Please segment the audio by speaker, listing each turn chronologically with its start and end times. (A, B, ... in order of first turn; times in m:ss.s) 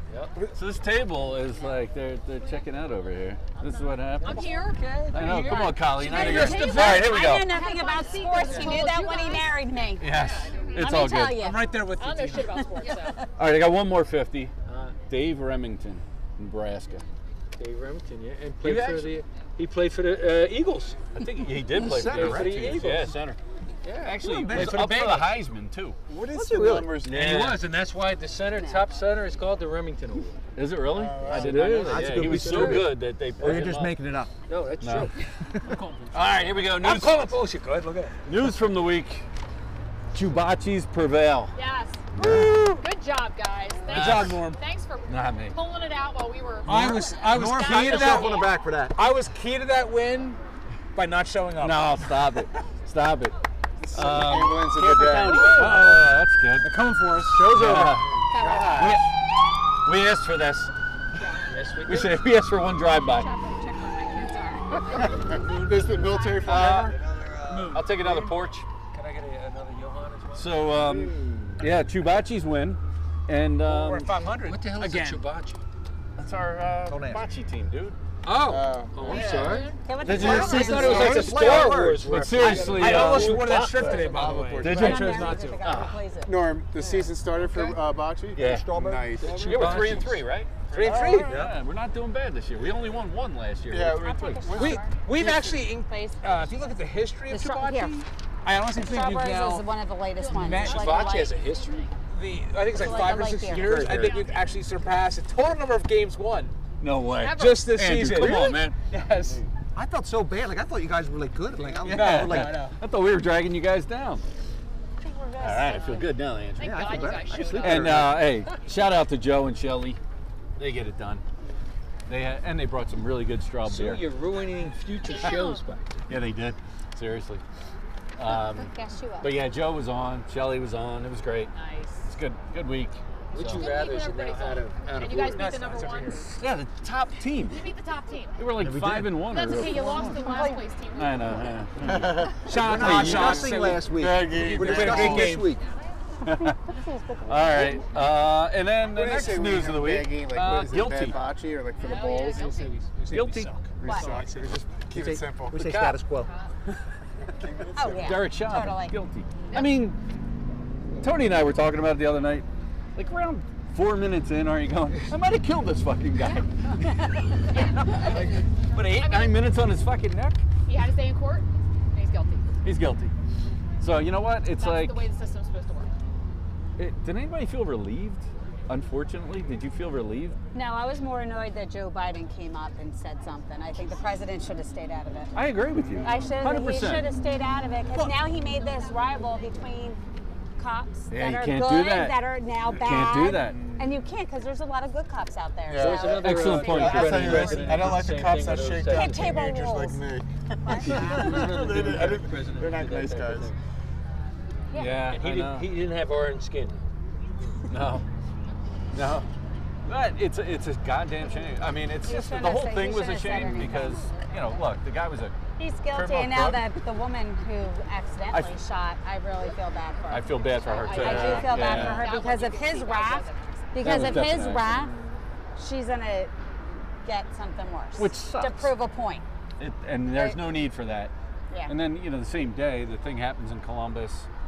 0:00.5-0:04.6 A
0:03.6-0:10.8 B
0:05.1-0:06.3 C
0:05.1-0:07.6 A
0:06.1-0:10.1 D
0:06.1-0:06.9 E
0:10.0-0:11.5 A
0:10.8-0:11.8 D
0:11.4-0:12.6 E
0:11.9-0:13.2 B
0:13.4-0:14.5 A
0:14.7-0:15.0 C
0:15.1-0:17.0 A
0:17.6-0:21.0 C
0:18.6-0:19.2 A
0:21.2-0:23.4 A
0:21.7-0:22.9 F
0:21.8-0:23.2 C
0:23.8-0:25.5 C
0:24.0-0:26.0 A
0:24.2-0:24.9 F
0:26.1-0:27.4 G
0:26.3-0:27.0 F
0:27.0-0:27.6 A
0:27.1-0:30.4 C
0:30.6-0:33.9 A
0:30.9-0:31.9 G
0:31.3-0:32.9 C
0:31.3-0:34.3 F
0:34.5-0:35.1 C
0:34.8-0:35.1 A
0:35.7-0:36.2 E
0:36.1-0:37.4 A
0:36.6-0:38.2 C
0:38.3-0:39.3 A
0:40.1-0:41.5 A
0:41.5-0:42.1 B
0:42.2-0:42.6 F
0:42.2-0:42.8 A
0:42.3-0:42.6 E
0:42.7-0:48.6 B
0:43.9-0:44.6 E
0:43.9-0:44.5 A
0:45.1-0:45.6 A
0:46.7-0:50.4 E
0:46.7-0:47.0 A
0:47.3-0:49.0 F
0:51.0-0:52.2 E
0:51.6-0:53.4 A
0:53.8-0:55.7 G
0:53.9-0:56.8 A
0:54.9-0:58.0 E
0:55.3-0:55.7 B
0:57.3-0:58.1 A
0:57.5-0:58.0 F
0:58.3-0:58.7 B
0:58.3-0:58.9 G
0:58.8-0:59.1 A
0:59.8-1:00.7 A
1:01.5-1:02.2 C
1:01.8-1:03.3 A
1:02.9-1:06.6 B
1:05.0-1:07.7 G
1:06.4-1:07.0 A
1:07.5-1:08.3 E
1:07.7-1:08.7 A
1:08.9-1:10.6 C
1:10.4-1:14.2 A
1:10.9-1:11.2 G
1:13.6-1:15.2 E
1:14.4-1:15.6 C
1:16.2-1:18.0 A
1:16.9-1:17.2 F
1:18.2-1:24.0 C
1:18.4-1:19.5 G
1:19.0-1:24.0 A
1:19.8-1:21.4 D
1:20.0-1:22.1 F
1:22.4-1:25.6 E
1:23.1-1:25.3 G
1:24.6-1:26.0 A
1:24.6-1:27.1 D
1:26.2-1:30.0 G
1:28.4-1:28.7 A
1:28.4-1:29.2 F
1:29.2-1:30.0 E
1:29.2-1:30.2 C
1:29.3-1:30.6 A
1:30.7-1:31.3 G
1:30.7-1:31.4 E
1:31.0-1:31.6 F
1:31.1-1:34.6 A
1:33.7-1:34.9 G
1:33.9-1:38.0 D
1:34.6-1:39.7 E
1:38.8-1:41.3 D
1:40.2-1:41.9 B
1:40.3-1:41.1 E
1:40.6-1:41.9 C
1:42.1-1:46.6 E
1:42.7-1:44.0 D
1:43.6-1:44.1 F
1:43.8-1:44.5 B
1:46.8-1:48.8 A
1:47.2-1:49.5 E
1:49.8-1:52.6 F
1:51.6-1:52.8 E
1:51.8-1:54.2 A
1:55.0-1:56.2 D
1:55.4-2:00.0 A
1:56.6-1:58.1 B
1:56.6-1:58.3 F
2:00.6-2:01.2 A
2:02.1-2:04.0 A
2:03.6-2:06.1 C
2:05.1-2:05.6 B
2:06.1-2:07.4 A
2:08.2-2:08.7 A
2:08.3-2:09.4 D
2:09.2-2:11.5 A
2:11.5-2:12.2 B
2:12.1-2:13.7 A
2:13.3-2:15.6 C
2:13.4-2:16.3 B
2:15.0-2:16.3 E
2:16.3-2:17.7 A
2:17.4-2:18.6 B
2:18.4-2:22.2 A
2:18.6-2:19.3 F
2:19.2-2:21.6 B
2:19.6-2:20.6 D
2:21.8-2:25.4 G
2:22.4-2:25.5 E
2:22.5-2:25.6 F
2:22.8-2:23.4 A
2:26.2-2:26.6 A
2:26.3-2:27.8 D
2:27.3-2:31.2 A
2:28.9-2:32.5 G
2:31.8-2:32.8 B
2:31.9-2:34.5 E
2:33.1-2:33.6 A
2:33.8-2:36.0 G
2:34.8-2:36.3 F
2:36.1-2:36.5 B
2:37.3-2:38.4 G
2:37.8-2:39.0 D
2:38.0-2:40.0 A
2:39.4-2:39.9 B
2:41.0-2:50.4 A
2:47.5-2:49.6 B
2:50.7-2:52.5 B
2:52.6-2:53.1 A
2:53.8-2:55.1 A
2:54.5-2:55.9 B
2:56.8-3:00.4 A
3:00.5-3:05.4 D
3:05.3-3:07.1 A
3:06.0-3:10.0 D
3:10.6-3:16.2 D
3:11.1-3:13.6 A
3:15.7-3:23.5 G
3:15.8-3:19.4 C
3:16.1-3:18.0 A
3:16.4-3:17.8 B
3:18.9-3:20.0 D
3:20.7-3:21.4 D
3:20.8-3:21.6 A
3:21.0-3:23.5 C
3:24.7-3:25.0 D
3:24.7-3:25.7 A
3:25.0-3:26.8 C
3:27.7-3:28.0 A
3:28.9-3:29.3 A
3:29.9-3:35.4 A
3:32.0-3:34.0 D
3:33.8-3:34.6 B
3:35.6-3:44.9 D
3:35.9-3:36.7 A
3:38.3-3:38.6 A
3:39.4-3:44.3 B
3:40.1-3:42.1 A
3:41.0-3:42.0 G
3:43.8-3:44.9 A
3:45.6-3:46.3 D
3:47.0-3:49.2 D
3:48.0-3:48.7 A
3:49.6-3:51.1 A
3:50.1-3:50.5 D
3:51.5-3:51.8 D
3:51.7-3:54.3 A